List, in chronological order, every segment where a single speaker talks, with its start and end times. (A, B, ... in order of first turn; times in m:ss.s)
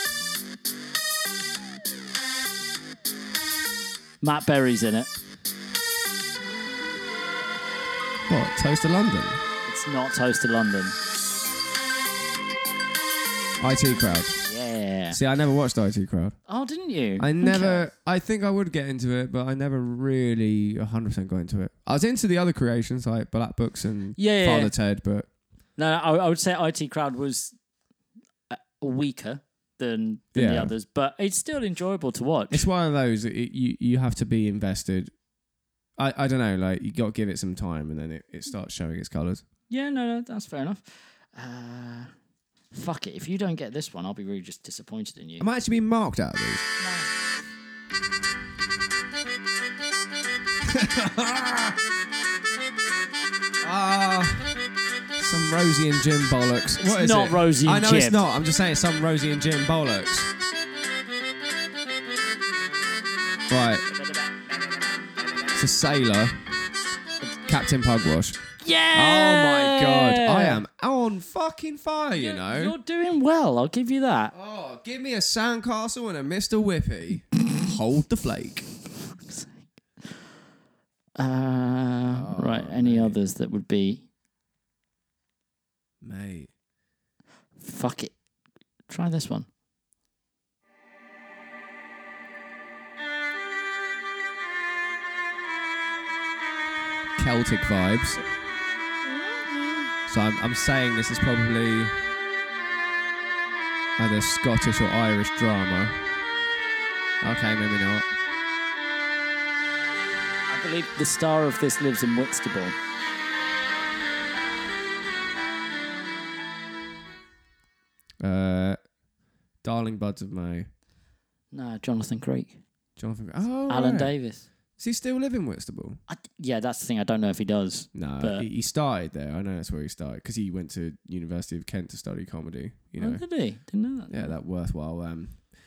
0:04.2-0:05.1 A
0:08.3-0:09.4 B
0:09.6-0:11.0 A
0:13.6-0:14.4 B
0:14.4-0:15.2 A
0:15.1-0:16.4 B
0:16.5-0:17.9 A
0:17.2-0:25.3 B
0:24.2-0:24.7 A
0:25.8-0:27.6 A
0:28.5-0:32.6 A
0:30.3-0:30.7 B
0:32.5-0:35.1 B
0:36.0-0:39.4 B
0:39.7-0:42.1 A
0:42.7-0:45.5 A
0:45.4-0:46.6 B
0:46.8-0:47.1 A
0:50.6-0:51.8 B
0:53.6-0:54.5 B
0:55.2-1:00.3 B
0:56.8-0:58.2 A
1:03.5-1:03.8 B
1:03.8-1:05.6 A
1:05.5-1:06.4 B
1:07.4-1:08.4 B
1:08.6-1:10.6 A
1:08.9-1:12.8 B
1:12.1-1:14.3 A
1:14.3-1:18.7 B
1:21.2-1:24.0 A
1:22.1-1:23.2 B
1:26.0-1:26.5 B
1:27.6-1:28.1 A
1:28.9-1:29.5 A
1:37.2-1:38.2 B
1:39.0-1:39.9 A
1:40.1-1:42.0 B
1:44.0-1:46.0 B
1:47.2-1:48.0 B
1:50.5-1:52.8 A
1:58.2-1:58.8 B
1:59.6-2:00.7 B
2:01.5-2:02.6 A
2:03.0-2:04.2 B
2:03.7-2:04.5 A
2:04.8-2:06.0 B
2:06.1-2:08.4 A
2:07.9-2:13.2 B
2:13.0-2:14.3 A
2:14.1-2:15.4 B